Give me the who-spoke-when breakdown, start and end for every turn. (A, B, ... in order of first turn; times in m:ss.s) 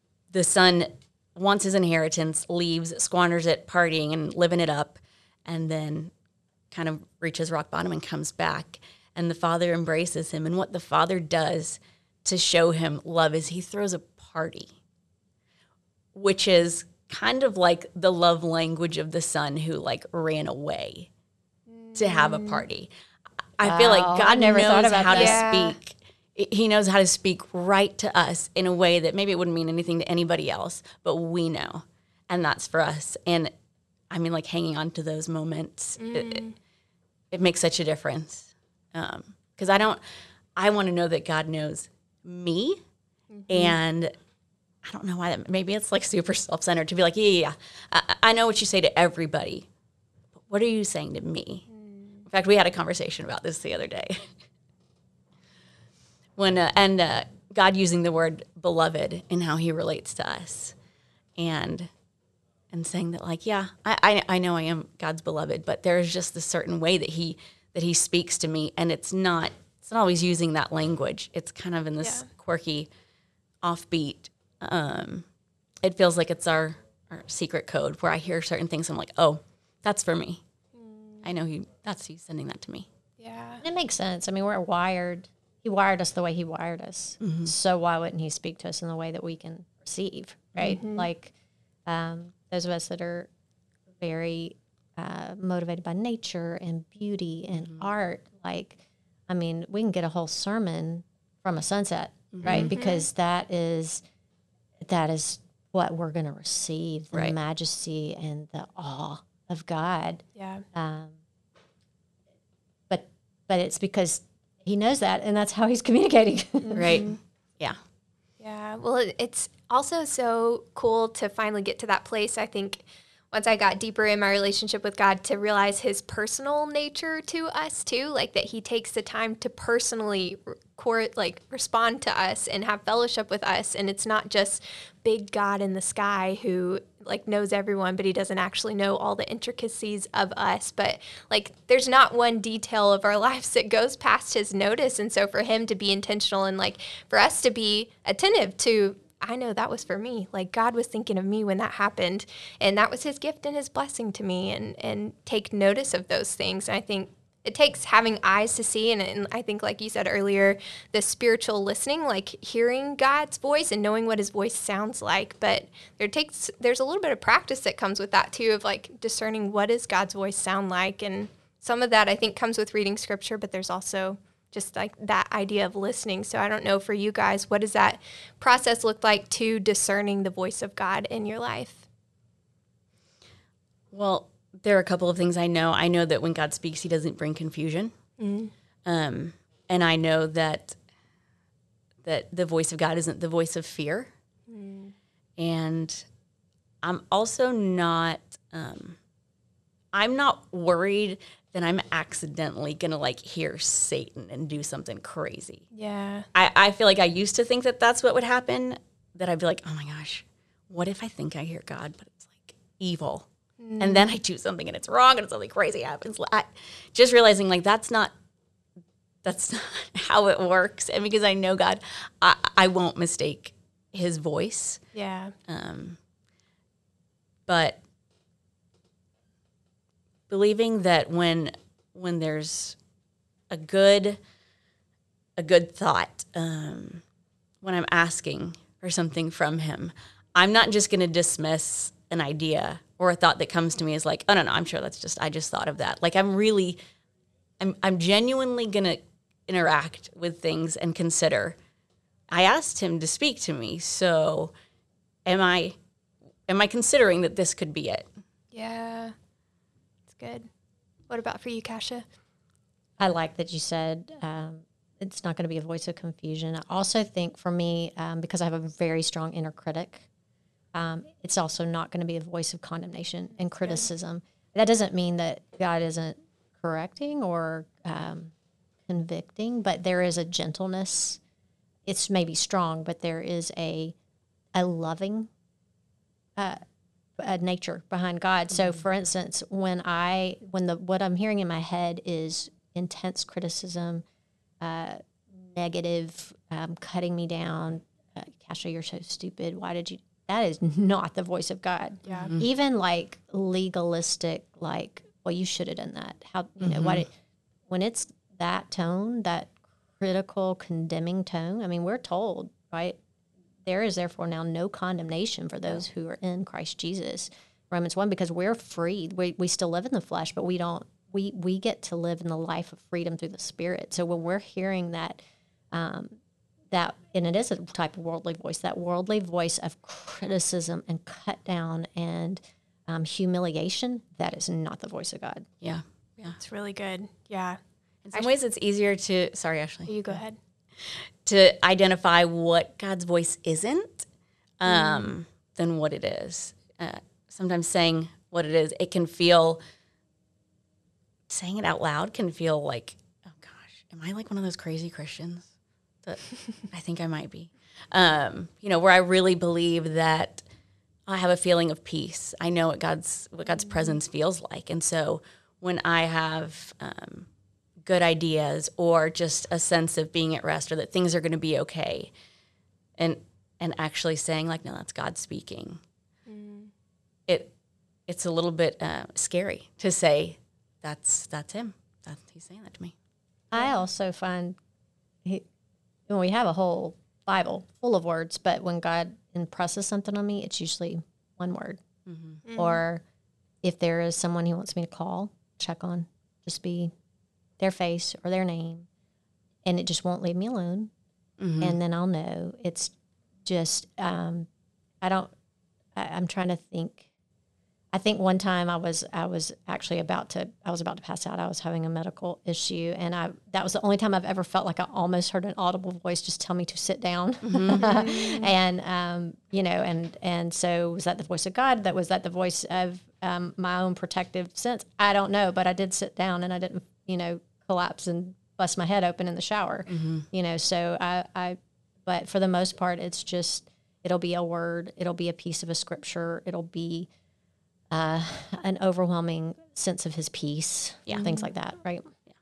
0:00.3-0:06.1 A
0:06.7-0:14.7 A
0:16.1-0:21.1 A
0:21.7-0:22.6 B
0:21.9-0:22.9 A
0:23.6-0:33.5 A
0:23.6-0:25.4 C
0:25.1-0:25.8 B
0:34.1-0:36.4 A
0:36.0-0:36.5 B
0:37.3-0:40.0 A
0:40.6-0:42.8 A
0:43.3-0:43.8 B
0:43.5-0:44.1 A
0:44.8-0:49.7 A
0:50.4-0:51.6 A
0:51.7-0:52.2 B
0:52.2-0:54.3 A
0:56.4-1:00.7 A
1:01.4-1:01.9 A
1:02.7-1:12.9 A
1:12.0-1:12.3 B
1:13.6-1:15.2 A
1:15.8-1:20.4 A
1:20.7-1:21.2 B
1:21.2-1:22.9 A
1:23.2-1:23.6 B
1:23.6-1:31.3 C
1:27.2-1:27.5 A
1:30.6-1:31.1 B
1:31.8-1:33.3 C
1:33.9-1:44.0 C
1:42.3-1:42.7 A
1:42.4-1:43.0 B
1:44.8-1:51.1 C
1:50.4-1:50.6 B
1:52.9-1:57.0 C
1:56.6-1:57.2 B
1:56.8-1:57.8 A
1:58.4-3:01.8 B
3:03.9-3:07.9 A
3:08.2-3:08.5 B
3:08.8-3:10.8 A
3:12.0-3:14.1 A
3:14.5-3:14.9 B
3:15.4-3:16.0 A
3:16.8-3:19.0 A
3:19.9-3:25.6 A
3:25.7-3:26.3 B
3:26.3-3:33.2 A
3:33.6-3:34.1 B
3:33.8-3:38.1 A
3:39.2-3:44.8 A
3:44.9-3:45.3 B
3:45.5-3:46.0 A
3:47.5-3:47.8 A
3:50.3-3:52.8 A
3:53.5-3:54.2 A
3:55.4-3:57.0 A
3:57.6-4:06.8 A
4:07.6-4:11.6 A
4:12.3-4:14.5 A
4:15.2-4:15.8 A
4:16.5-4:18.1 A
4:18.5-4:19.1 B
4:20.1-4:20.5 B
4:21.1-4:22.1 B
4:23.0-4:30.0 C
4:30.7-4:38.3 C
4:38.9-4:41.2 C
4:41.8-4:43.9 C
4:44.5-4:45.3 C
4:47.2-4:54.0 C
4:54.6-5:07.1 C
5:02.0-5:02.3 B
5:06.6-5:07.0 A
5:07.7-5:13.0 C
5:13.6-5:25.2 C
5:25.7-5:26.2 C
5:26.7-5:35.5 C
5:35.6-5:36.4 A
5:36.4-5:37.6 B
5:38.1-5:40.2 A
5:39.9-5:40.4 B
5:40.8-5:44.1 A
5:44.6-5:49.6 A
5:44.7-5:45.1 B
5:51.3-5:55.5 A
5:56.0-6:00.4 A
6:01.1-6:07.3 A
6:03.5-6:04.0 B
6:07.8-6:12.1 A
6:13.0-6:15.8 A
6:16.3-6:16.7 B
6:17.3-6:17.5 A
6:18.1-6:22.9 A
6:23.5-6:24.6 C
6:26.1-6:31.8 C
6:32.1-6:32.4 A
6:32.4-6:32.8 B
6:32.6-6:33.0 C
6:33.6-6:36.9 C
6:37.6-6:38.9 C
6:39.6-6:40.9 C
6:41.4-6:41.8 A
6:41.6-6:42.9 C
6:43.4-6:44.5 C
6:45.0-6:45.3 C
6:45.9-6:47.1 C
6:47.9-7:17.1 C
6:57.4-6:57.9 A
6:57.8-6:58.5 B
7:09.9-7:10.2 A
7:17.9-7:22.1 C
7:21.1-7:21.5 B